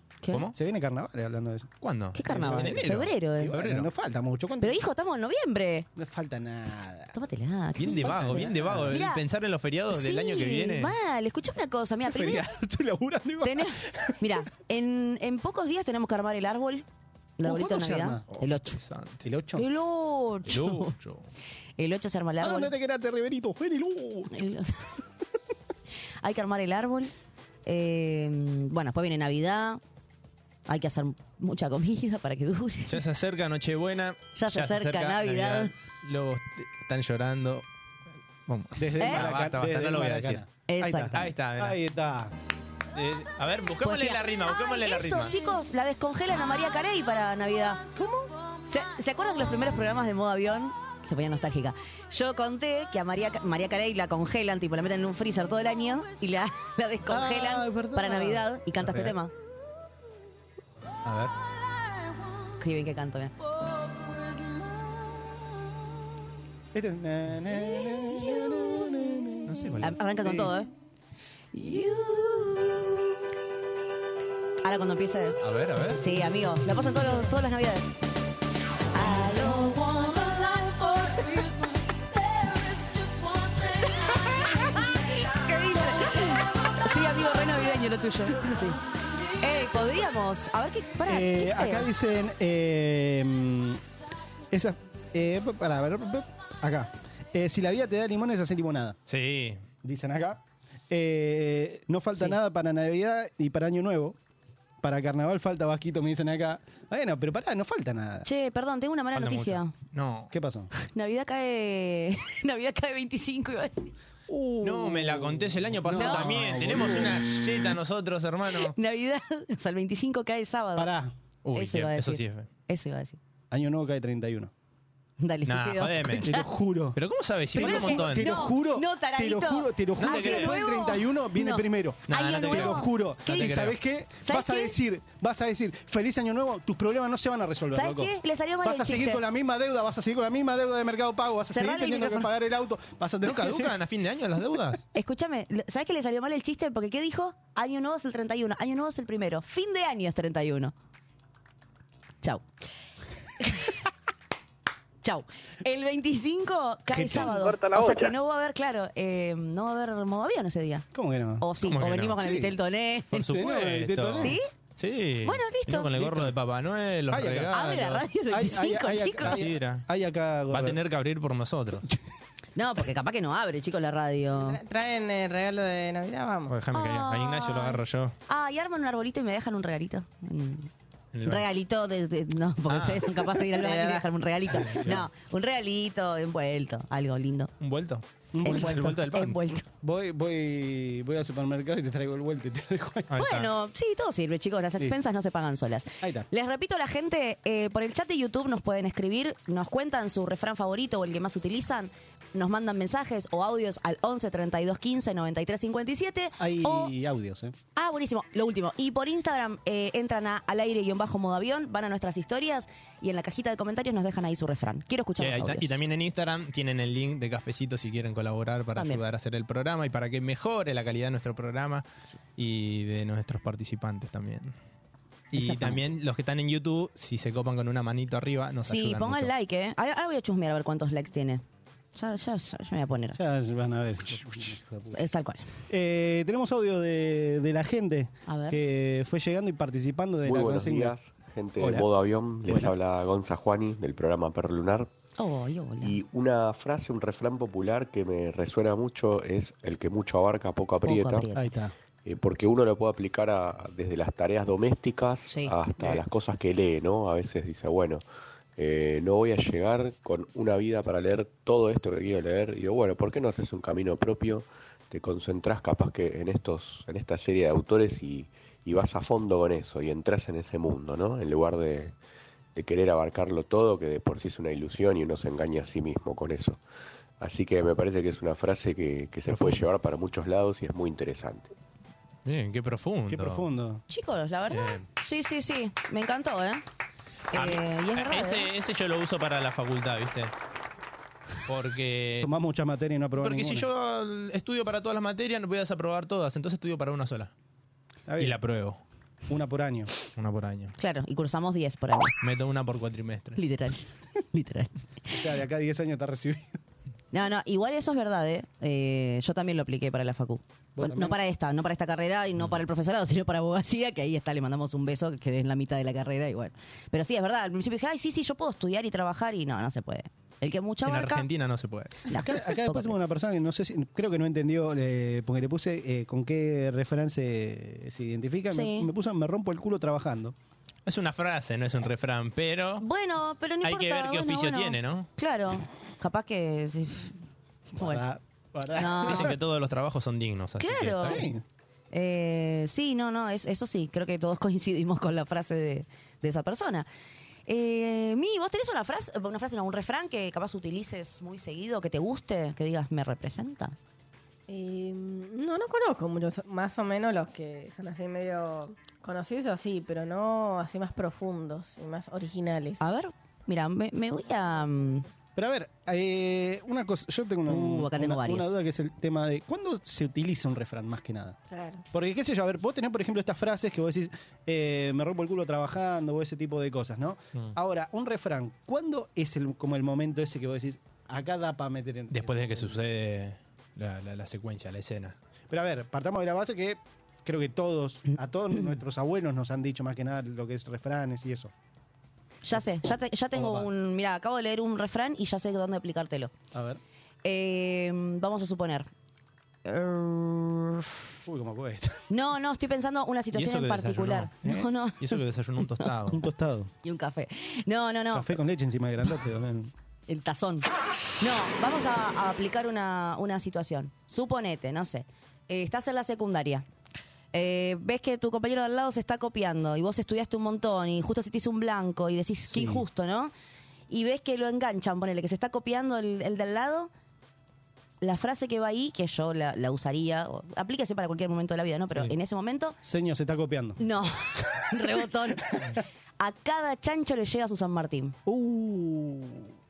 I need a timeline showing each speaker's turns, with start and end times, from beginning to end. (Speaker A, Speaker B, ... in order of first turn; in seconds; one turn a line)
Speaker A: 0.5-1.7
Speaker B: 1.8-3.9
Speaker C: 2.1-3.6
Speaker A: 2.2-4.8
Speaker C: 4.6-5.9
Speaker A: 6.0-7.2
Speaker C: 7.1-9.2
Speaker B: 7.8-10.9
Speaker A: 8.0-9.0
Speaker C: 9.9-12.4
Speaker A: 12.1-14.4
Speaker C: 13.4-16.9
Speaker C: 17.4-18.8
Speaker A: 17.4-18.2
Speaker B: 18.3-19.2
Speaker A: 19.2-19.7
Speaker C: 19.6-20.9
Speaker B: 20.5-21.3
Speaker C: 21.8-22.7
Speaker A: 22.4-24.3
Speaker C: 24.3-25.0
Speaker C: 26.2-27.1
Speaker C: 27.7-29.8
Speaker C: 30.7-33.0
Speaker B: 32.9-37.6
Speaker C: 34.4-35.7
Speaker B: 38.5-40.4
Speaker A: 38.8-42.3
Speaker C: 39.0-39.3
Speaker C: 40.7-41.2
Speaker B: 41.1-41.8
Speaker B: 42.9-45.4
Speaker C: 43.8-59.3
Speaker A: 57.1-59.1
Speaker B: 61.0-61.3
Speaker C: 62.6-63.3
Speaker A: 66.7-69.7
Speaker B: 69.5-70.0
Speaker C: 69.8-70.7
Speaker A: 70.2-70.5
Speaker C: 71.5-72.8
Speaker C: 74.6-75.4
Speaker B: 75.4-76.0
Speaker C: 76.0-77.9
Speaker C: 78.9-81.7
Speaker C: 83.5-88.8
Speaker C: 89.4-91.9
Speaker A: 91.1-93.8
Speaker A: 94.5-99.0
Speaker B: 99.1-99.6
Speaker A: 99.8-104.2
Speaker A: 104.8-108.3
Speaker C: 108.2-109.7
Speaker B: 109.2-110.3
Speaker A: 110.3-110.7
Speaker C: 110.8-113.9
Speaker A: 114.3-117.4
Speaker B: 114.6-118.8
Speaker C: 115.9-116.3
Speaker C: 118.6-120.9
Speaker A: 120.8-121.1
Speaker B: 121.4-122.5
Speaker C: 121.5-123.2
Speaker A: 123.5-124.5
Speaker C: 125.2-126.5
Speaker B: 125.5-126.3
Speaker A: 126.1-127.0
Speaker B: 127.0-128.5
Speaker A: 127.5-143.8
Speaker C: 127.6-133.7
Speaker B: 130.0-130.6
Speaker B: 132.1-133.8
Speaker C: 134.2-134.8
Speaker C: 137.8-139.2
Speaker C: 141.5-142.3
Speaker B: 143.2-144.8
Speaker C: 144.9-150.7
Speaker C: 153.4-153.8
Speaker C: 155.0-160.9
Speaker A: 156.9-158.1
Speaker A: 160.9-161.5
Speaker C: 161.4-163.3
Speaker B: 161.6-162.2
Speaker A: 162.2-162.6
Speaker B: 163.1-168.1
Speaker A: 163.3-164.4
Speaker C: 164.2-164.5
Speaker C: 165.2-165.9
Speaker A: 166.0-166.3
Speaker A: 167.1-167.6
Speaker C: 167.5-169.4
Speaker A: 168.3-170.8
Speaker B: 169.2-169.9
Speaker B: 170.5-171.9
Speaker C: 172.6-174.6
Speaker D: 174.4-176.5
Speaker B: 176.5-178.2
Speaker C: 176.7-180.7
Speaker B: 181.1-181.5
Speaker C: 181.2-187.5
Speaker B: 182.7-183.2
Speaker D: 183.6-184.1
Speaker B: 184.6-185.0
Speaker B: 187.6-189.4
Speaker A: 188.3-189.0
Speaker C: 188.4-189.7
Speaker A: 189.8-193.1
Speaker B: 193.1-193.5
Speaker C: 193.2-206.9
Speaker A: 196.0-196.3
Speaker A: 206.4-207.5
Speaker C: 207.8-215.7
Speaker B: 215.2-221.8
Speaker C: 218.8-219.0
Speaker B: 222.4-224.5
Speaker B: 225.3-229.3
Speaker C: 225.3-225.8
Speaker C: 228.7-231.4
Speaker C: 231.9-233.2
Speaker A: 233.2-235.0
Speaker C: 234.9-235.5
Speaker A: 235.7-240.9
Speaker C: 238.3-238.6
Speaker E: 240.2-244.9
Speaker A: 241.6-241.9
Speaker A: 242.5-242.7
Speaker C: 245.2-245.9
Speaker E: 245.8-251.3
Speaker C: 250.8-251.5
Speaker A: 251.3-251.8
Speaker E: 252.1-258.0
Speaker C: 255.3-255.5
Speaker E: 258.6-271.9
Speaker E: 272.6-276.6
Speaker E: 277.2-281.5
Speaker B: 279.3-279.6
Speaker B: 282.2-283.5
Speaker A: 283.1-283.8
Speaker C: 283.9-286.6
Speaker B: 284.5-284.9
Speaker C: 287.3-288.5
Speaker B: 287.3-290.3
Speaker B: 291.5-292.3
Speaker A: 292.2-293.7
Speaker B: 293.2-297.3
Speaker A: 298.1-298.4
Speaker B: 298.2-298.8
Speaker A: 299.3-299.9
Speaker B: 300.1-300.8
Speaker C: 300.8-302.2
Speaker B: 302.2-303.4
Speaker C: 303.4-305.2
Speaker A: 305.1-306.6
Speaker C: 307.1-321.3
Speaker A: 310.8-311.2
Speaker B: 320.9-322.1
Speaker C: 322.1-323.0
Speaker A: 322.1-330.4
Speaker C: 328.5-328.9
Speaker B: 330.9-332.8
Speaker C: 332.8-337.2
Speaker B: 333.6-335.1
Speaker C: 337.7-338.0
Speaker A: 337.8-339.4
Speaker C: 338.7-339.4
Speaker B: 339.0-341.3
Speaker C: 340.6-341.2
Speaker A: 341.0-341.4
Speaker C: 341.9-346.9
Speaker C: 347.5-353.8
Speaker D: 354.5-362.8
Speaker C: 362.8-365.1
Speaker A: 365.4-371.4
Speaker C: 367.5-368.5
Speaker D: 371.5-371.8
Speaker A: 371.9-382.8
Speaker B: 382.1-385.2
Speaker A: 385.5-391.5
Speaker C: 392.4-396.3
Speaker A: 392.5-393.7
Speaker A: 396.5-396.8
Speaker C: 397.2-398.9
Speaker C: 399.6-401.0
Speaker A: 401.3-402.0
Speaker C: 402.1-405.1
Speaker B: 403.3-404.3
Speaker B: 405.0-406.2
Speaker A: 406.1-406.7
Speaker C: 406.8-408.4
Speaker A: 408.1-409.7
Speaker C: 410.1-410.7
Speaker C: 411.2-416.7
Speaker C: 417.3-423.3
Speaker A: 422.5-422.8
Speaker C: 423.9-426.9
Speaker C: 428.0-432.8
Speaker A: 432.8-433.8
Speaker C: 433.8-438.2
Speaker A: 434.6-435.7
Speaker A: 438.3-439.5